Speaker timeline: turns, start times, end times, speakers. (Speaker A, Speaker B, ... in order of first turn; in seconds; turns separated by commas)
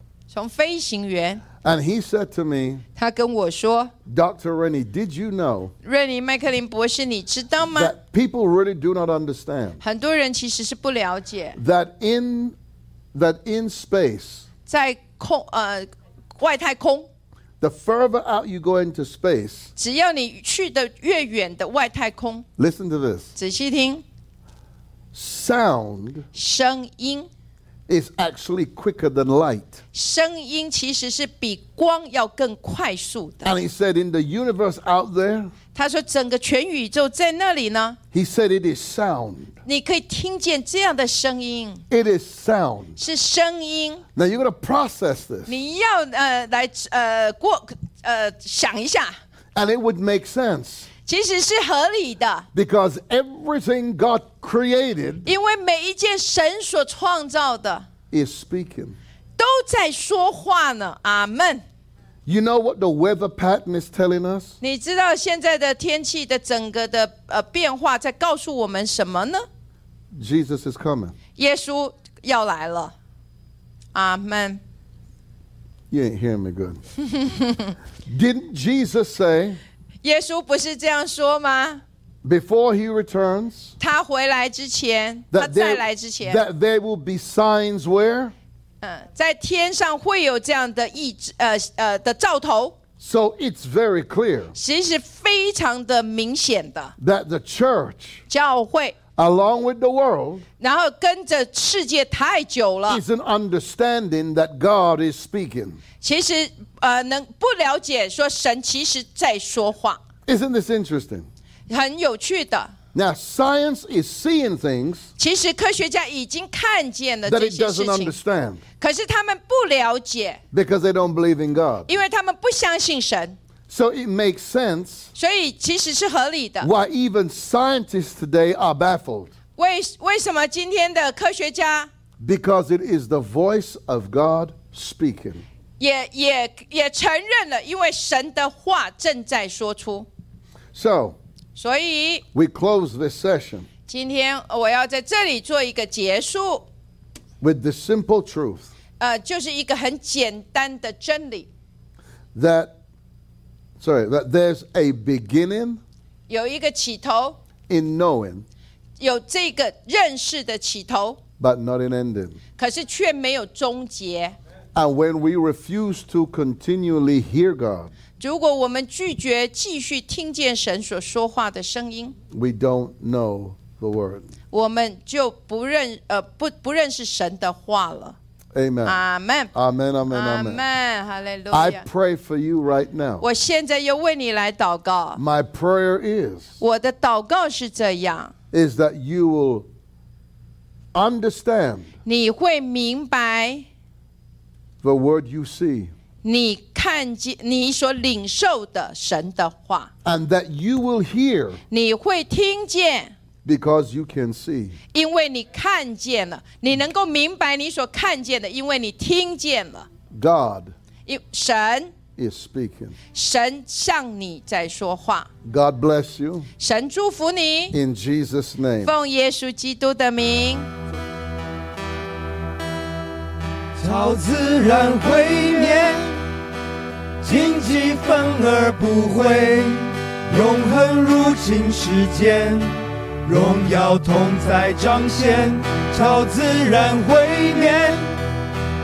Speaker A: 0.3-1.4, Speaker B: 1.6-2.8, Speaker A: 3.0-3.9, Speaker B: 4.0-5.7, Speaker A: 5.8-7.9, Speaker B: 7.6-9.8, Speaker A: 9.8-11.6, Speaker B: 11.6-12.6, Speaker B: 13.1-14.5, Speaker A: 14.7-17.1, Speaker B: 17.6-19.7, Speaker A: 19.8-22.4, Speaker B: 22.6-23.3, Speaker A: 23.4-24.0, Speaker B: 25.1-26.3, Speaker A: 26.3-27.3, Speaker B: 27.9-29.8, Speaker A: 29.9-33.5, Speaker B: 33.4-35.5, Speaker A: 35.7-38.0, Speaker B: 38.1-39.5, Speaker A: 39.6-41.8, Speaker B: 41.9-43.0, Speaker A: 43.0-44.0, Speaker B: 44.1-45.6, Speaker A: 45.5-49.1, Speaker B: 49.5-50.9, Speaker A: 51.0-52.5, Speaker B: 52.5-55.3, Speaker A: 55.2-57.8, Speaker B: 58.1-59.0, Speaker A: 59.4-61.6, Speaker B: 62.2-64.5, Speaker A: 64.6-69.4, Speaker B: 70.2-71.1, Speaker A: 71.3-72.9, Speaker A: 73.9-74.6, Speaker B: 75.9-76.8, Speaker A: 77.2-77.7, Speaker B: 78.0-79.6, Speaker A: 80.0-81.8, Speaker B: 82.2-83.7, Speaker A: 83.8-86.4, Speaker B: 85.3-88.3, Speaker A: 88.8-92.8, Speaker B: 93.0-94.5, Speaker A: 94.5-96.9, Speaker B: 97.0-98.2, Speaker A: 98.3-99.0, Speaker B: 99.2-100.4, Speaker A: 100.6-103.0, Speaker B: 102.9-105.8, Speaker A: 106.0-110.0, Speaker B: 110.3-111.3, Speaker A: 111.7-112.7, Speaker B: 112.9-115.1, Speaker A: 115.2-118.1, Speaker B: 117.2-118.6, Speaker A: 118.8-120.4, Speaker B: 120.5-121.9, Speaker A: 121.9-123.4, Speaker B: 123.7-125.1, Speaker A: 125.1-126.7, Speaker B: 126.6-129.3, Speaker A: 129.6-131.9, Speaker B: 132.2-135.4, Speaker A: 135.8-140.1, Speaker B: 140.7-141.2, Speaker A: 141.6-142.2, Speaker B: 142.3-143.7, Speaker A: 143.9-146.7, Speaker B: 147.4-148.7, Speaker A: 149.0-151.5, Speaker B: 152.3-152.7, Speaker B: 153.8-155.8, Speaker A: 156.3-157.4, Speaker B: 157.7-158.4, Speaker A: 159.0-161.2, Speaker B: 161.4-162.4, Speaker A: 162.6-164.3, Speaker B: 164.7-167.9, Speaker A: 168.2-172.2, Speaker B: 172.3-174.3, Speaker A: 174.5-178.2, Speaker B: 178.5-179.0, Speaker A: 178.8-179.5, Speaker B: 179.5-180.6, Speaker A: 180.1-181.9, Speaker B: 181.5-183.2, Speaker A: 183.2-185.2, Speaker B: 185.2-186.5, Speaker A: 186.6-188.3, Speaker B: 188.5-189.7, Speaker B: 190.9-191.9, Speaker A: 192.0-193.7, Speaker B: 194.8-195.9, Speaker A: 196.2-199.9, Speaker B: 200.0-201.6, Speaker A: 201.7-203.1, Speaker B: 203.4-204.8, Speaker A: 204.9-209.9, Speaker B: 210.1-210.7, Speaker A: 211.1-211.9, Speaker B: 212.2-212.9, Speaker A: 213.1-215.3, Speaker B: 215.4-216.5, Speaker A: 216.6-217.8, Speaker B: 217.7-218.9, Speaker A: 218.8-220.7, Speaker C: 223.8-226.2, Speaker C: 227.2-238.2